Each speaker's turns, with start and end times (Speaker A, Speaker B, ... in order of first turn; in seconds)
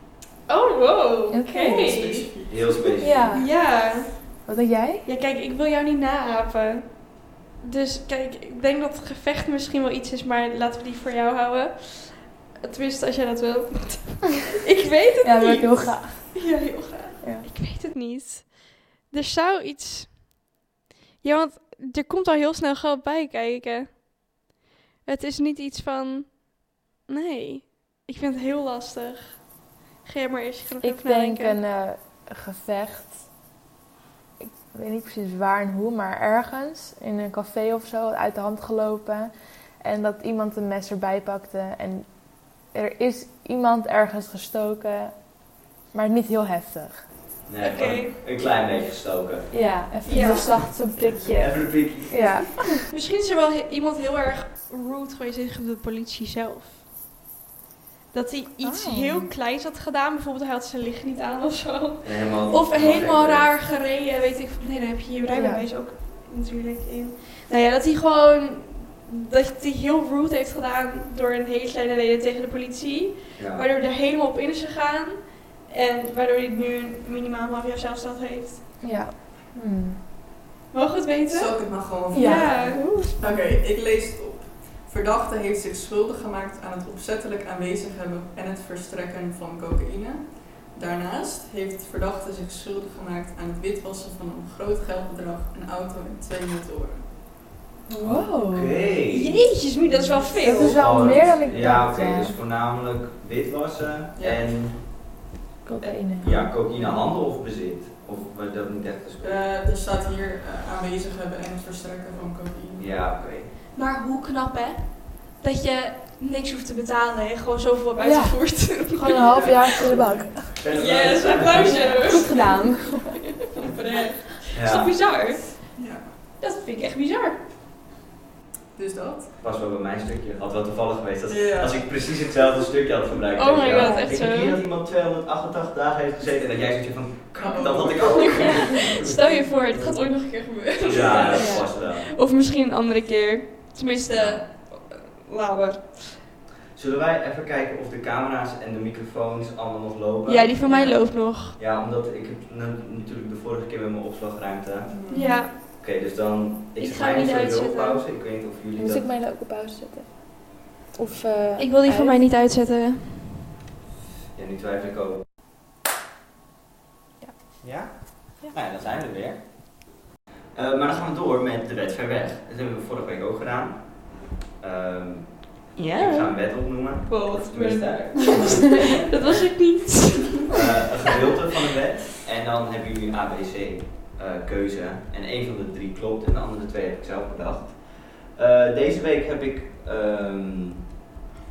Speaker A: 0.5-2.3, 3.3-4.4, 5.0-20.3, 21.2-24.0, 25.1-31.6, 47.6-48.2, 50.1-50.7, 52.9-56.8, 58.1-78.6, 80.7-83.2, 99.1-100.8, 113.7-120.0, 120.7-125.7, 126.4-127.4, 133.3-134.6, 138.1-146.2, 150.3-151.6, 155.1-155.6, 156.8-158.0, 161.6-163.4, 175.8-176.5, 177.1-180.5
Speaker B: 1.3-2.0, 3.0-3.5, 4.5-5.1, 15.2-16.5, 17.2-17.5, 30.8-33.3, 34.4-45.2, 45.9-47.0, 49.5-52.8, 58.6-59.3, 65.3-65.6, 78.8-80.0, 82.1-83.1, 97.9-98.8, 100.4-102.3, 105.6-106.4, 118.0-120.6, 121.6-123.2, 133.8-134.1, 141.3-141.7, 158.8-162.2
Speaker C: 1.8-3.0, 81.3-97.0, 104.2-104.5, 109.2-113.2, 119.3-120.3, 125.8-126.1, 128.7-129.3, 131.3-132.0, 137.4-138.7, 154.9-155.4
Speaker D: 2.5-3.4, 47.5-49.5, 51.4-52.5, 62.0-63.5, 73.4-73.7, 98.0-99.4, 100.6-105.0, 105.8-109.4, 112.8-113.5, 120.5-122.0, 124.5-124.9, 129.4-139.2, 140.8-142.2, 144.1-144.4, 146.7-154.9, 155.5-159.1, 164.3-165.3, 167.6-169.8, 170.5-179.5, 180.5-190.8